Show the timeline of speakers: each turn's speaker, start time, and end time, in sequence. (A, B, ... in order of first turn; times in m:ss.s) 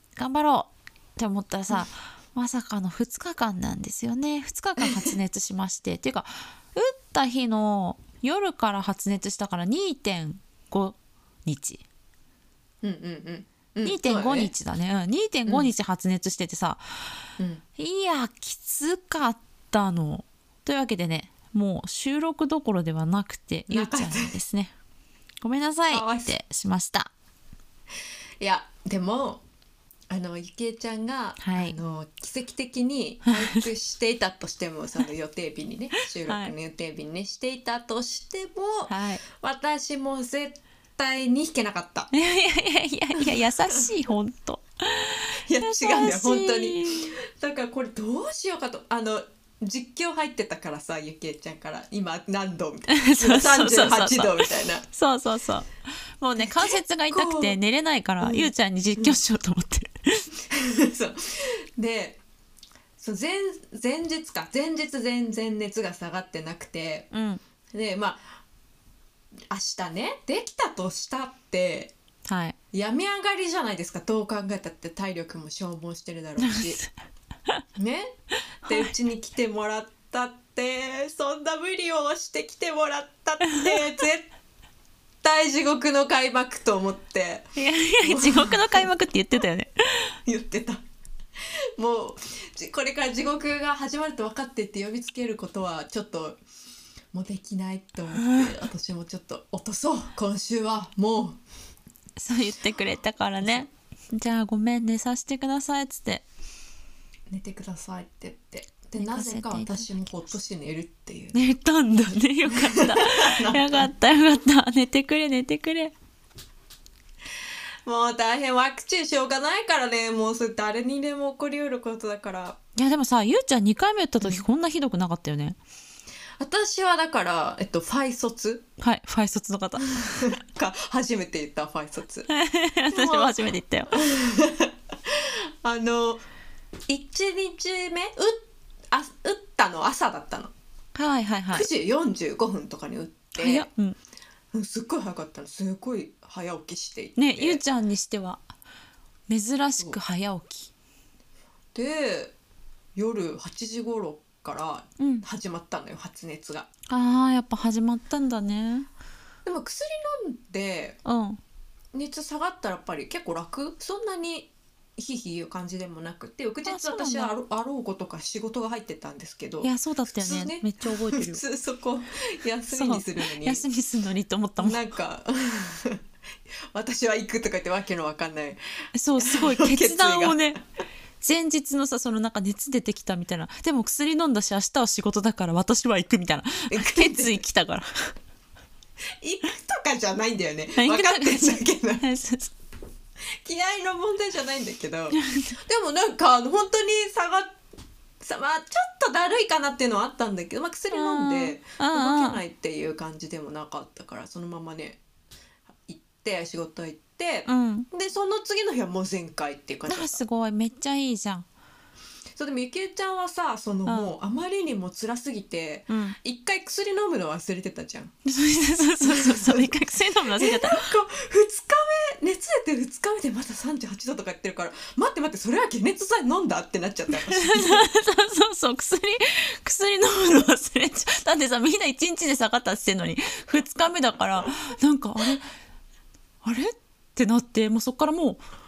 0:00.2-0:11.8 A
0:04.8-0:05.1 B
0:12.8-0:14.5 B
0:13.8-0:17.2 A
0:17.4-0:17.6 B
0:17.8-0:24.7 A
0:23.7-0:24.3 B
0:25.4-0:27.1 A
0:25.9-0:26.3 B
0:28.4-0:29.4 B
0:30.1-0:42.1 B
0:31.4-0:31.8 A
0:33.3-0:33.6 A
0:36.2-0:36.5 A
0:38.9-0:39.2 A
0:42.1-0:47.1 A
0:43.2-0:43.9 B
0:45.3-0:54.8 B
0:52.9-1:00.3 A
0:56.4-0:57.6 B
0:58.2-0:59.2 B
1:00.5-1:02.2 B
1:03.0-1:07.1 B
1:07.1-1:07.4 A
1:07.7-1:08.4 B
1:09.5-1:11.9 B
1:12.2-1:12.6 A
1:12.7-1:16.8 B
1:16.4-1:16.9 A
1:17.8-1:18.1 B
1:18.6-1:18.9 A
1:18.6-1:24.3 B
1:23.5-1:23.8 A
1:25.2-1:27.5 B
1:27.5-1:30.2 A
1:28.0-1:28.9 B
1:30.2-1:30.8 B
1:31.4-1:36.4 B
1:37.1-1:41.4 B
1:38.2-1:38.5 A
1:42.2-1:46.2 A
1:47.3-1:51.4 B
1:49.0-1:49.9 A
1:51.3-1:55.9 A
1:52.5-1:53.9 B
1:57.8-2:02.6 B
2:02.8-2:05.6 A
2:06.4-2:08.7 B
2:08.8-2:10.0 A
2:09.8-2:12.3 B
2:12.3-2:13.9 A
2:12.9-2:13.4 B
2:13.9-2:16.2 B
2:16.9-2:18.4 B
2:18.9-2:20.5 B
2:20.9-2:21.7 A
2:21.5-2:23.7 B
2:23.4-2:24.0 A
2:24.5-2:27.6 B
2:27.2-2:28.4 A
2:29.3-2:30.7 A
2:31.7-2:32.3 B
2:33.0-2:36.7 B
2:35.0-2:35.2 A
2:36.9-2:38.9 A
2:39.4-2:41.0 B
2:41.0-2:41.4 A
2:41.9-2:53.6 B
2:46.6-2:47.3 A
2:49.6-2:51.4 A
2:52.7-2:54.8 A
2:54.6-2:56.0 B
2:56.7-2:58.6 B
2:58.9-3:00.6 A
2:59.2-3:00.4 B
3:01.2-3:08.1 A
3:06.7-3:07.4 B
3:09.2-3:12.0 B
3:10.8-3:12.5 A
3:13.3-3:17.6 B
3:15.1-3:15.5 A
3:18.2-3:25.0 B
3:20.9-3:22.4 A
3:25.7-3:30.2 B
3:27.5-3:27.9 A
3:29.9-3:31.4 A
3:32.4-3:38.1 B
3:33.8-3:34.1 A
3:35.9-3:36.2 A
3:38.2-3:40.8 A
3:39.0-3:39.7 B
3:40.3-3:47.9 B
3:47.3-3:55.5 A
3:56.4-3:58.4 A